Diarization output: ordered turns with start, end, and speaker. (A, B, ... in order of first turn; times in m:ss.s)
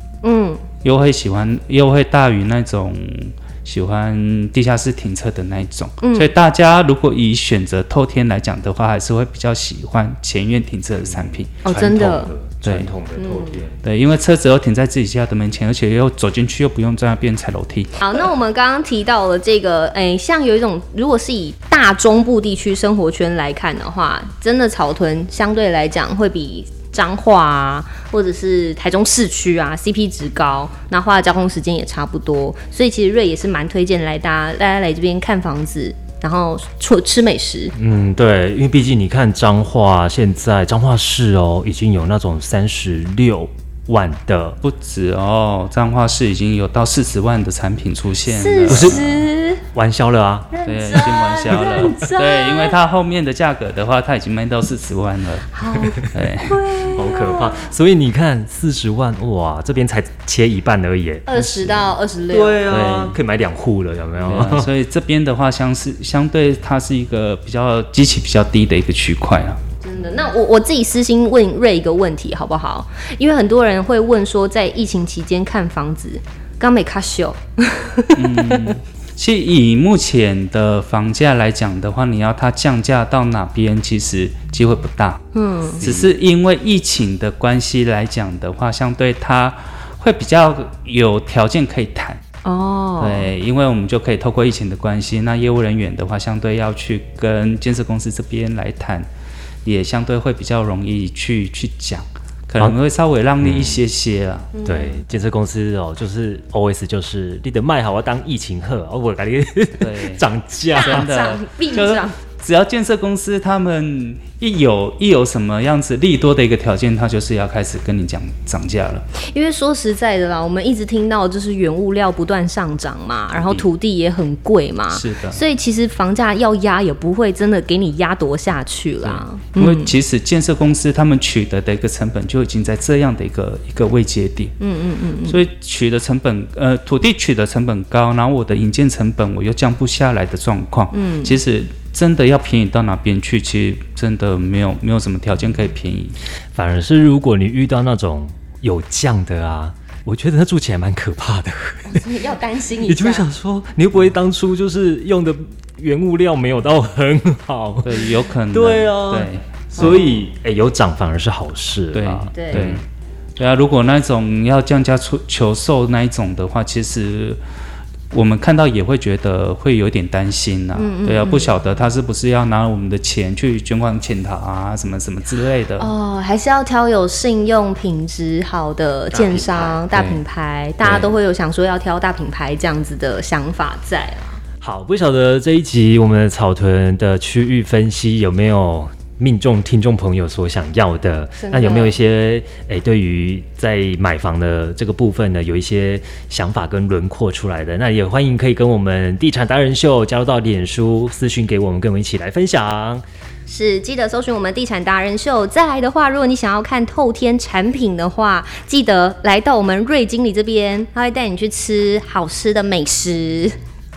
0:00.2-0:00.6 A
0:00.8-0:11.6 B
0:06.0-0:06.3 A
0:11.0-0:13.8 C
0:11.6-0:12.3 A
0:12.6-0:12.9 B
0:13.2-0:13.6 A
0:13.8-0:18.0 B
0:18.0-0:37.7 A
0:37.8-0:44.6 C
0:44.6-0:49.0 B
0:48.3-0:49.6 A
0:48.7-0:51.8 C
0:50.5-0:52.8 A
0:50.6-0:55.5 B
0:55.5-0:57.7 A
0:56.1-0:56.6 B
0:56.9-1:01.3 C
1:01.2-1:02.7 A
1:01.4-1:01.9 B
1:02.3-1:04.7 C
1:02.7-1:03.2 B
1:04.2-1:09.6 B
1:09.8-1:18.7 A
1:18.1-1:25.2 B
1:25.3-1:25.8 A
1:25.8-1:26.1 C
1:25.8-1:32.2 B
1:32.4-1:33.3 A
1:33.0-1:39.1 B
1:39.6-1:44.5 B
1:43.4-1:43.8 C
1:44.5-1:45.0 A
1:44.6-1:51.1 C
1:49.8-1:50.2 B
1:50.7-1:52.2 A
1:50.8-1:59.0 B
1:59.2-2:09.9 A
2:03.4-2:03.6 B
2:04.9-2:05.4 B
2:09.0-2:14.5 B
2:14.6-2:15.4 A
2:15.2-2:26.2 B
2:20.9-2:21.4 A
2:26.5-2:32.0 C
2:31.9-2:33.2 A
2:32.8-2:42.8 C
2:37.8-2:40.0 B
2:39.8-2:40.2 A
2:41.9-2:42.8 B
2:42.3-2:42.7 A
2:43.4-2:47.4 B
2:48.1-2:55.9 B
2:50.8-2:51.6 A
2:55.8-3:04.4 A
2:59.1-2:59.8 C
2:59.9-3:00.2 B
3:00.8-3:01.1 C
3:04.6-3:23.0 C
3:11.4-3:12.0 A
3:23.5-3:33.6 A